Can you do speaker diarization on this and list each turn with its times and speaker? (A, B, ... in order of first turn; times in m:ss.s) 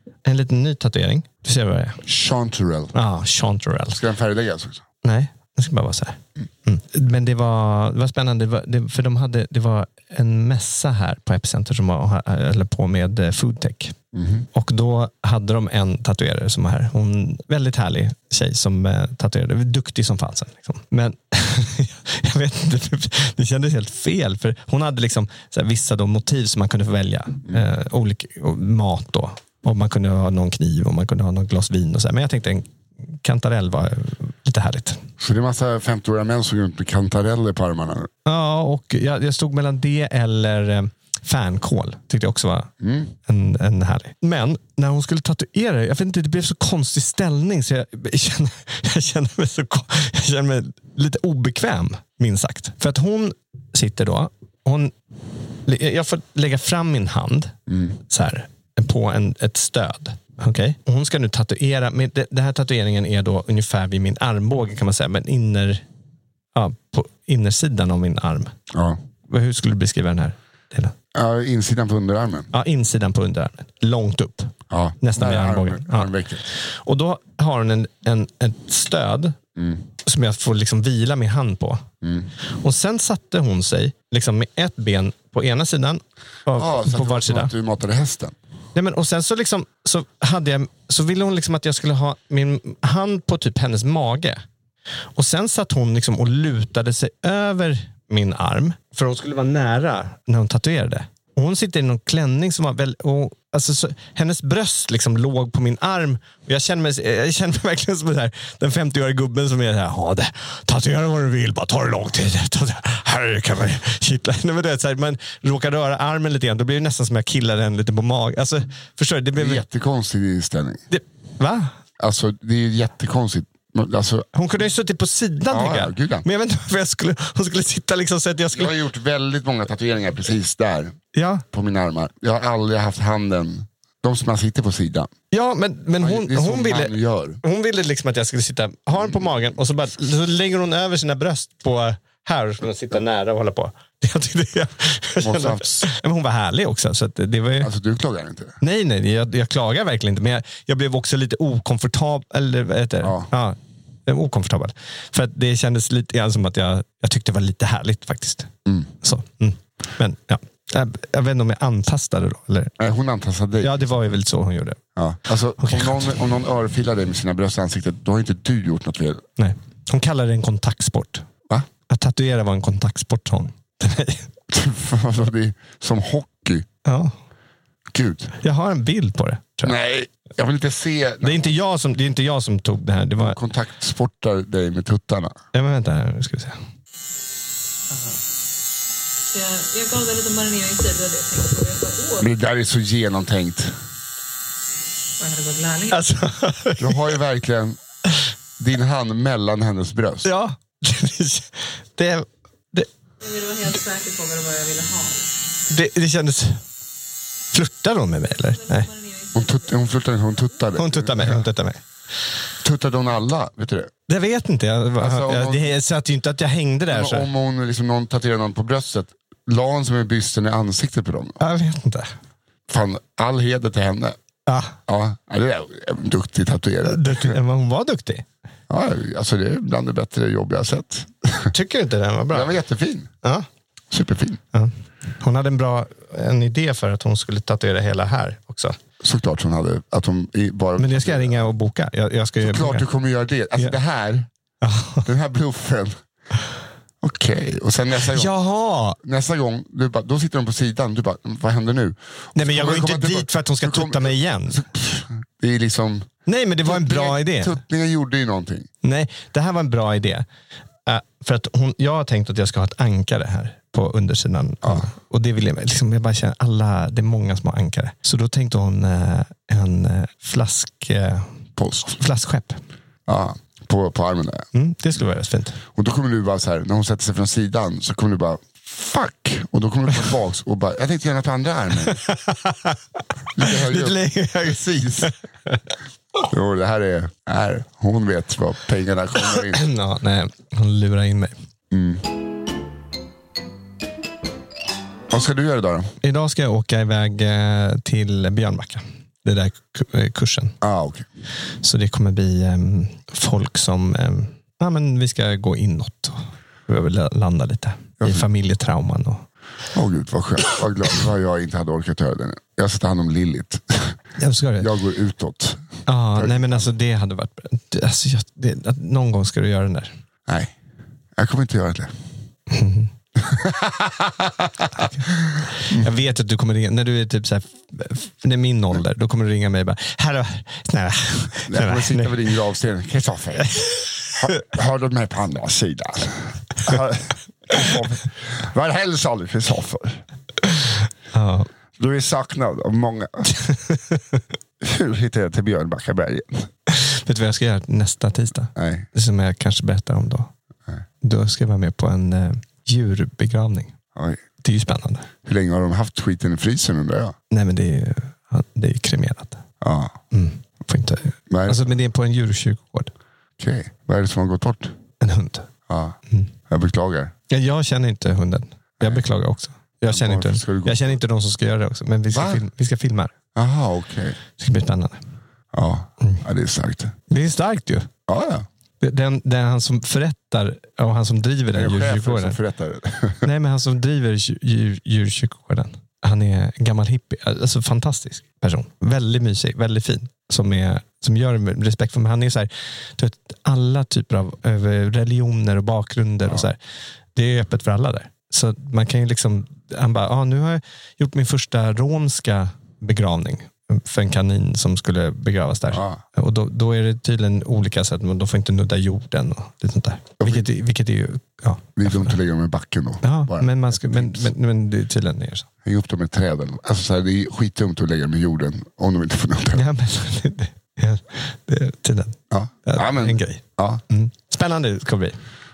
0:00.2-0:02.0 A
0:02.0-0:02.9 B
0:02.9-0:04.0 A
0:03.9-0:04.8 B
0:05.0-0:14.0 A
0:14.1-0:14.5 B
0:14.5-0:35.0 A
0:35.2-0:38.1 B
0:38.3-0:42.7 A
0:42.8-0:43.1 B
0:43.3-0:54.9 A
0:55.7-1:05.8 A
0:57.7-0:58.0 B
1:06.6-1:08.5 A
1:08.7-1:09.0 B
1:09.3-1:10.9 A
1:11.2-1:12.5 B
1:12.5-1:16.1 A
1:14.7-1:16.5 B
1:16.7-1:19.4 A
1:19.6-1:19.8 B
1:20.0-1:21.9 A
1:22.0-1:22.3 B
1:22.6-1:27.5 A
1:26.5-1:28.4 B
1:28.8-1:34.4 A
1:35.2-1:59.6 A
1:59.4-2:00.8 B
2:00.9-2:01.7 A
2:02.0-2:04.3 B
2:04.3-2:08.8 A
2:05.5-2:06.3 B
2:08.5-2:11.0 B
2:11.1-2:11.4 A
2:11.5-2:15.1 B
2:15.3-2:27.7 A
2:16.0-2:17.4 B
2:18.9-2:19.5 B
2:25.2-2:25.9 B
2:27.6-2:28.6 B
2:28.6-2:42.8 A
2:33.0-2:33.3 B
2:42.8-2:43.8 B
2:43.6-2:44.8 A
2:45.0-2:49.2 B
2:45.6-2:46.2 A
2:49.4-2:51.3 A
2:51.9-2:54.3 A
2:54.5-2:56.7 B
2:56.8-2:57.1 A
2:57.9-2:58.3 B
2:58.4-2:59.8 A
2:59.6-3:01.6 B
3:01.2-3:03.4 A
3:03.2-3:05.4 B
3:05.5-3:06.6 A
3:09.3-3:12.3 C
3:12.2-3:13.7 B
3:15.2-3:16.1 C
3:15.9-3:17.1 A
3:16.8-3:17.8 B
3:18.6-3:20.3 B
3:20.2-3:22.9 A
3:23.2-3:25.3 C
3:25.7-3:26.6 A
3:27.5-3:28.9 A
3:28.3-3:30.6 C
3:29.3-3:31.4 B
3:30.8-3:31.8 A
3:32.6-3:33.9 B
3:34.1-3:37.3 A
3:35.0-3:35.7 B
3:36.9-3:41.4 B
3:41.4-3:42.1 A
3:42.7-3:44.2 B
3:44.5-3:44.8 A
3:44.9-3:47.4 B
3:46.8-3:48.3 A
3:48.7-3:51.5 B
3:51.5-3:52.5 A
3:52.3-3:53.1 B
3:53.9-3:54.4 B
3:54.5-3:58.8 A
3:59.0-4:01.5 B
4:00.8-4:02.8 A
4:02.4-4:04.3 B
4:04.6-4:05.1 A
4:05.0-4:06.0 B
4:07.0-4:08.3 B
4:08.1-4:09.0 A
4:09.0-4:16.1 B
4:12.4-4:14.6 A
4:16.3-4:17.6 A
4:16.6-4:18.7 B
4:18.8-4:20.3 A
4:20.9-4:31.3 A
4:31.6-4:32.0 B
4:31.9-4:32.6 A
4:33.1-4:34.5 B
4:34.5-4:35.6 A
4:35.8-4:42.0 B
4:42.0-4:42.8 A
4:43.3-4:45.1 B
4:43.4-4:45.6 A
4:46.3-4:49.6 B
4:49.2-4:51.3 A
4:51.7-4:52.0 B
4:55.1-4:55.9 B
4:56.0-5:00.6 A
5:00.6-5:01.1 B
5:01.6-5:09.2 A
5:08.0-5:08.3 B
5:09.7-5:14.0 B
5:14.2-5:14.7 A
5:14.6-5:15.6 B
5:15.9-5:19.9 A
5:16.1-5:16.7 B
5:20.3-5:20.6 B
5:21.2-5:21.9 B
5:22.5-5:22.9 A
5:23.2-5:25.8 B
5:25.6-5:32.1 A
5:31.5-5:40.0 B
5:41.1-5:41.5 A
5:41.8-5:43.4 B
5:43.5-5:44.1 A
5:44.6-5:46.5 B
5:46.7-5:50.3 A
5:48.6-5:48.9 B
5:51.0-5:53.7 A
5:54.0-5:54.2 B
5:54.4-5:55.1 A
5:55.2-5:57.2 B
5:57.3-5:59.4 A
5:59.6-6:00.0 B
6:00.1-6:02.9 A
6:01.3-6:01.7 B
6:03.4-6:04.8 B
6:05.0-6:05.5 A
6:05.7-6:06.0 B
6:06.5-6:07.1 B
6:07.3-6:13.1 A
6:09.9-6:11.0 B
6:12.1-6:12.4 B
6:13.4-6:14.2 B
6:14.4-6:15.0 A
6:15.5-6:17.0 B
6:17.1-6:17.9 A
6:18.1-6:18.5 B
6:18.8-6:22.4 A
6:21.5-6:23.3 B
6:23.2-6:36.6 A
6:37.2-6:52.2 A
6:45.7-6:46.0 B
6:50.2-6:50.5 B
6:51.8-6:54.3 B
6:53.0-6:55.5 A
6:55.6-6:59.6 B
6:59.5-7:05.2 A
7:02.3-7:03.8 B